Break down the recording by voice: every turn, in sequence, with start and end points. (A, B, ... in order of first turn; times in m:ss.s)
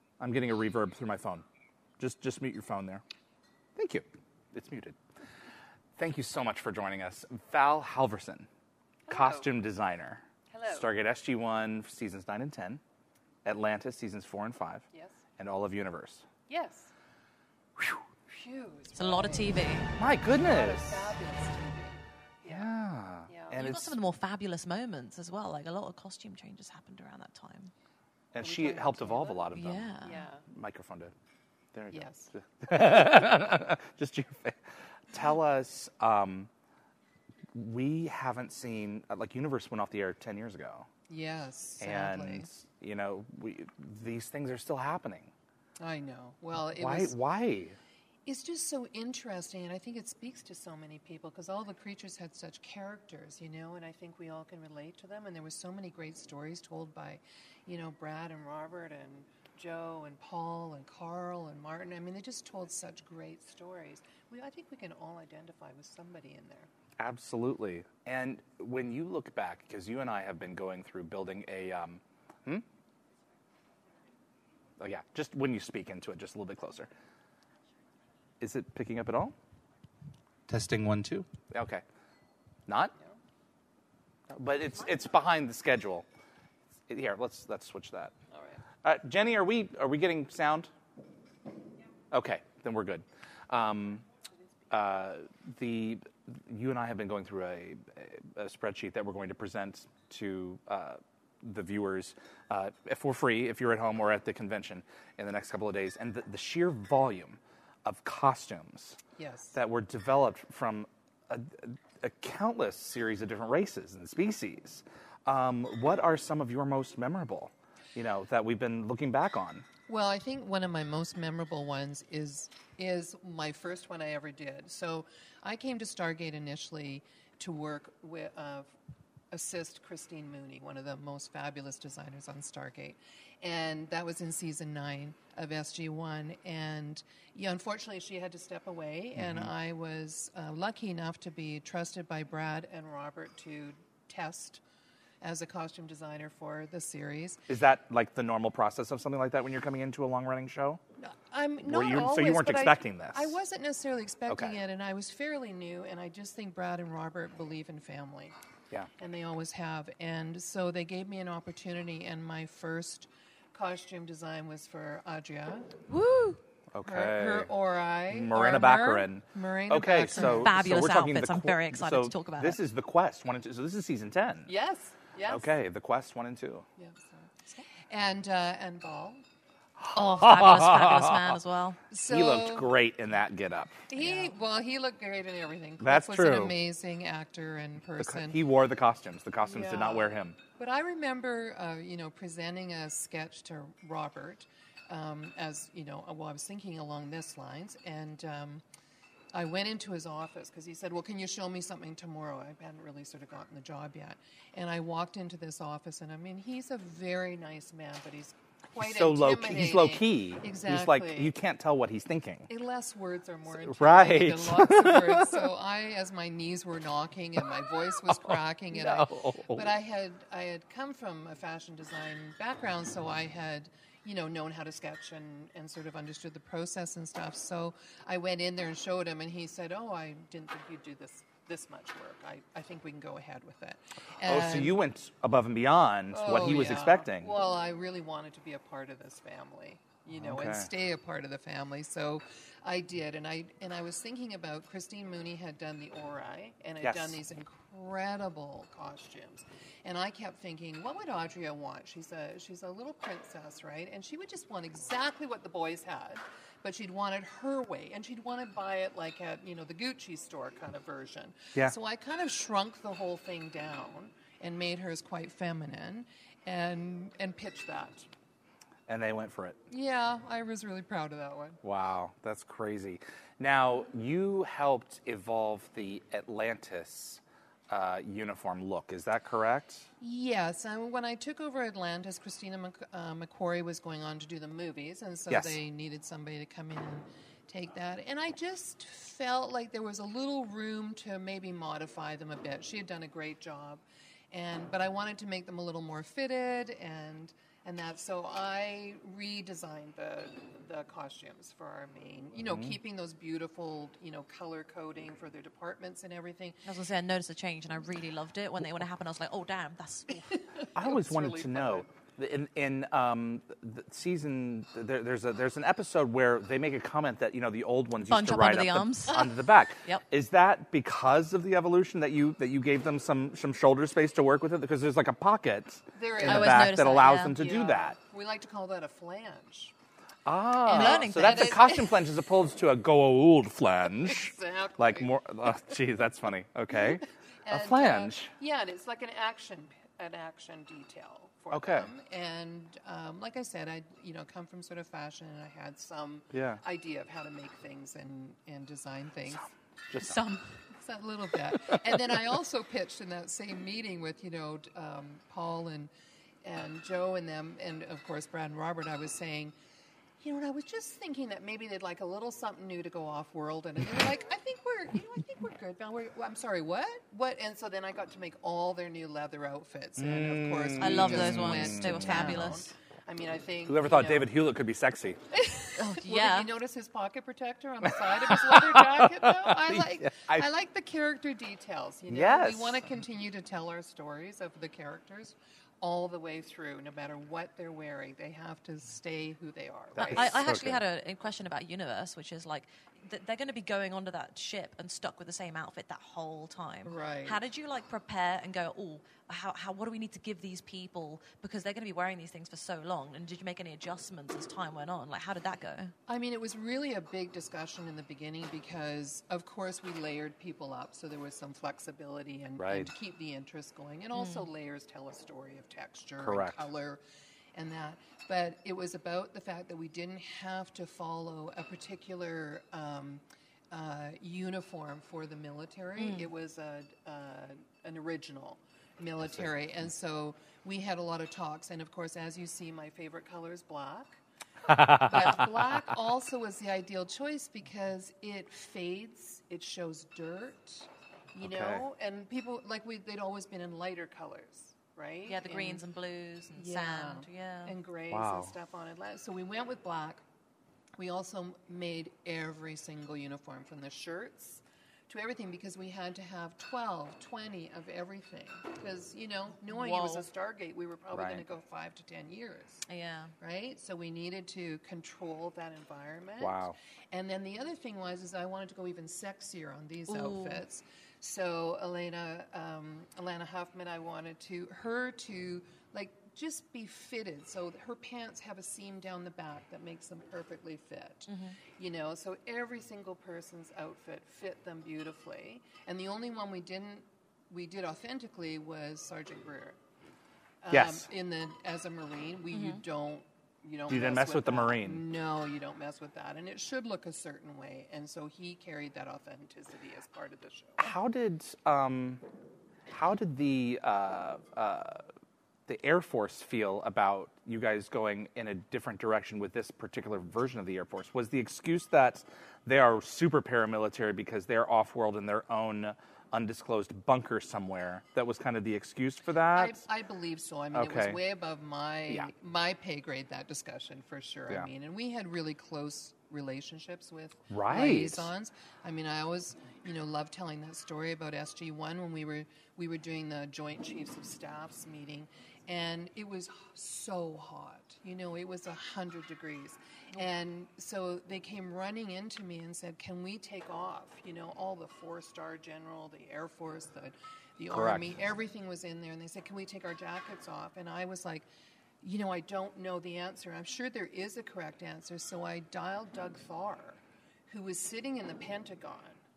0:00.2-0:01.4 A
0:02.0-0:03.0 A
0:03.8-0:05.0 A
0:06.0-0:08.5 A
0:09.1-0:09.5 B
0:09.1-0:12.8 A
0:10.5-0:10.9 B
0:13.4-0:14.8 A
0:14.9-0:15.2 B
0:15.4-0:16.2 A
0:16.5-0:16.9 B
0:18.3-0:22.7 B
0:18.9-0:19.9 C
0:20.0-0:21.1 A
0:22.4-0:24.0 A
0:23.3-0:23.6 B
0:23.5-0:27.7 C
0:28.3-0:29.9 A
0:28.4-0:30.4 B
0:29.5-0:30.3 C
0:30.5-0:31.1 A
0:31.7-0:34.6 A
0:31.9-0:32.3 B
0:35.1-0:36.5 A
0:37.5-0:40.9 A
0:41.1-0:42.5 B
0:41.8-0:45.3 A
0:45.8-0:47.2 B
0:46.8-0:47.8 A
0:48.2-1:06.7 B
1:07.0-1:12.6 A
1:14.8-1:16.9 A
1:18.4-1:19.3 A
1:20.5-1:21.8 A
1:22.7-1:22.9 A
1:24.3-1:26.0 A
1:26.9-1:28.1 A
1:28.3-1:28.6 B
1:28.8-1:30.7 A
1:32.1-1:34.0 A
1:34.7-1:49.0 A
1:49.2-1:49.6 B
1:49.5-1:59.6 A
1:59.9-2:08.7 B
2:09.3-2:24.6 B
2:19.2-2:19.5 A
2:25.2-2:27.4 B
2:27.5-2:30.8 A
2:31.0-2:38.3 B
2:31.6-2:33.4 A
2:34.3-2:34.6 A
2:39.0-2:45.7 B
2:45.9-2:46.4 C
2:46.7-2:47.5 A
2:46.8-2:50.5 B
2:48.1-2:54.5 A
2:50.1-2:52.6 C
2:54.4-2:55.5 B
2:55.3-2:56.6 A
2:56.8-2:59.2 B
2:59.8-3:01.4 A
2:59.9-3:01.8 C
3:01.9-3:02.7 B
3:02.0-3:03.8 A
3:03.9-3:08.4 B
3:05.8-3:06.6 A
3:08.0-3:10.4 A
3:09.4-3:18.6 B
3:19.3-3:31.3 B
3:28.8-3:32.5 A
3:32.5-3:54.8 B
3:33.6-3:35.5 A
3:38.1-3:39.7 A
3:54.2-3:57.3 A
3:56.1-4:28.1 B
4:00.1-4:00.7 A
4:06.8-4:07.2 A
4:28.9-4:29.6 A
4:29.7-4:31.6 B
4:31.6-4:39.9 A
4:40.0-5:06.6 B
4:45.3-4:45.6 A
5:02.5-5:02.8 A
5:06.6-5:10.2 C
5:10.1-5:11.9 B
5:10.7-5:28.0 A
5:18.1-5:19.3 C
5:25.9-5:29.7 B
5:26.2-5:27.4 C
5:30.2-5:38.3 A
5:30.7-5:31.8 C
5:30.7-5:31.9 B
5:34.0-5:35.1 B
5:36.8-5:49.5 B
5:41.5-5:41.9 A
5:46.3-5:46.6 A
5:49.3-5:50.2 A
5:50.0-5:50.5 C
5:50.8-5:55.9 B
5:56.4-5:59.5 B
6:00.2-6:14.3 B
6:10.0-6:12.5 A
6:10.8-6:12.7 C
6:13.6-6:15.2 A
6:15.4-6:30.4 B
6:15.8-6:16.5 C
6:17.9-6:20.5 A
6:22.1-6:22.8 A
6:29.9-6:30.8 A
6:30.1-6:45.9 C
6:36.8-6:37.4 B
6:46.1-6:57.0 B
6:52.6-6:52.9 A
6:54.1-6:54.4 C
6:56.2-6:56.6 A
6:57.5-7:25.8 B
7:06.0-7:06.3 C
7:09.2-7:09.5 A
7:14.7-7:15.5 A
7:21.4-7:21.8 A
7:25.3-7:27.7 C
7:26.5-7:30.2 B
7:28.1-7:28.5 A
7:31.0-7:42.8 B
7:39.7-7:40.2 C
7:41.1-7:41.4 A
7:42.9-7:43.3 C
7:43.4-8:09.8 B
7:46.4-7:46.8 A
7:50.1-7:50.6 C
8:01.3-8:01.6 C
8:10.6-8:20.9 B
8:10.7-8:11.1 A
8:12.5-8:12.8 C
8:13.9-8:15.0 A
8:20.8-8:22.2 A
8:22.9-8:25.0 A
8:25.7-8:39.8 A
8:39.5-9:11.5 B
8:40.7-8:41.2 A
8:47.5-8:48.3 A
9:07.7-9:08.2 A
9:12.0-9:19.2 B